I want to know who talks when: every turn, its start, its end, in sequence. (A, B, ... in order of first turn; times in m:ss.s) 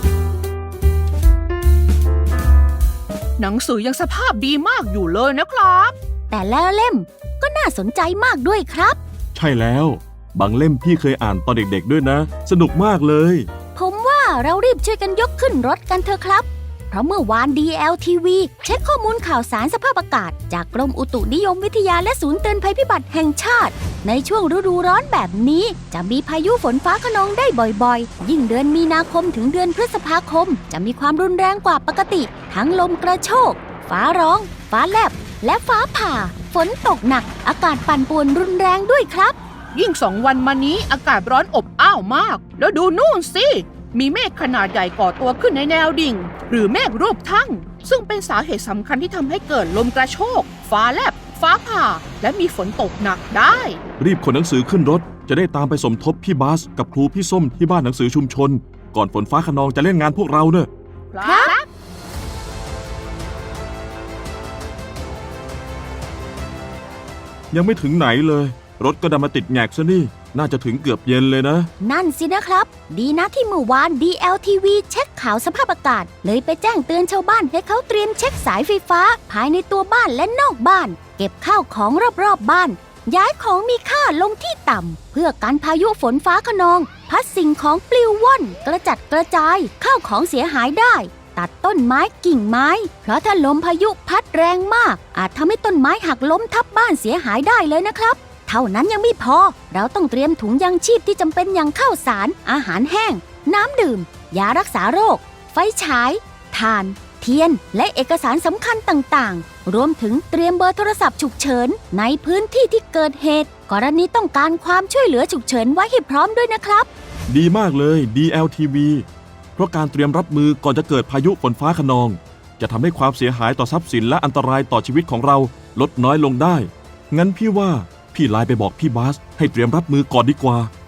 0:03.4-0:05.9 A
0:06.3-0:09.0 B
0:09.4-0:13.5 C
0:13.8-0:39.4 B
0:39.7-0:53.8 A
0:54.0-1:00.7 C
1:01.1-1:01.7 A
1:01.2-1:01.6 B
1:07.5-1:11.7 C
1:11.8-1:56.9 B
1:57.3-2:10.7 C